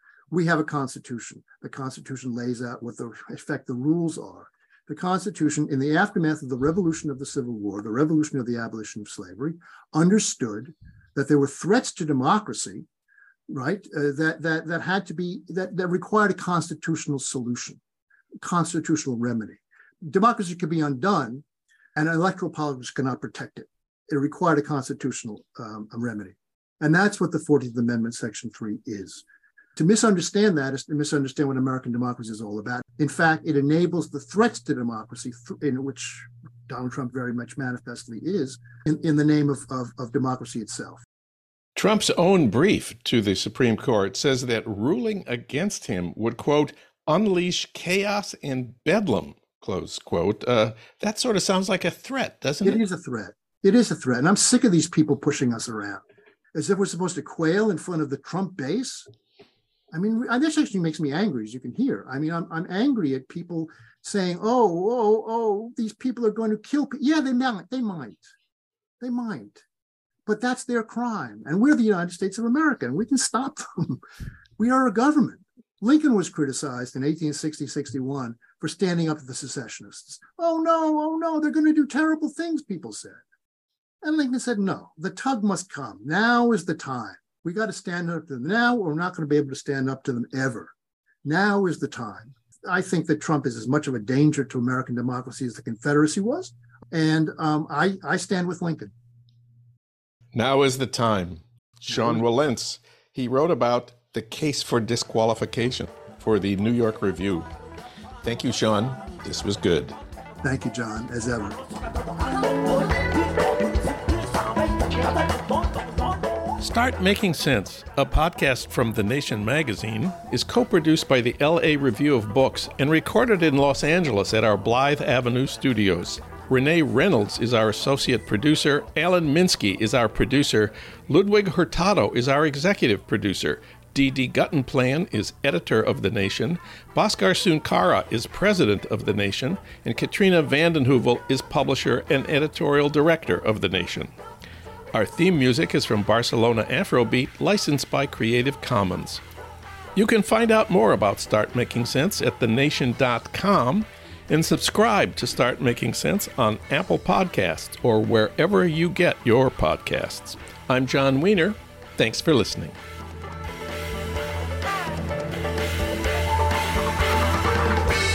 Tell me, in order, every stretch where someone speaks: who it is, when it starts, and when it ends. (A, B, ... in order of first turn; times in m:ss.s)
0:00.3-0:12.9 A
0:13.5-0:17.8 A
0:18.4-0:21.4 A
0:22.0-0:29.2 A
0:29.8-0:41.0 A
0:41.8-0:52.8 B
0:52.6-0:59.1 A
0:59.9-1:08.3 A
1:09.0-1:09.6 A
1:10.3-1:14.0 A
1:14.6-1:23.2 A
1:24.0-1:30.7 A
1:31.2-1:38.9 A
1:40.3-1:47.5 B
1:41.9-1:42.2 A
1:48.2-1:50.0 B
1:50.4-1:52.8 A
1:56.6-2:24.1 B
2:24.9-2:29.2 B
2:30.0-2:42.8 B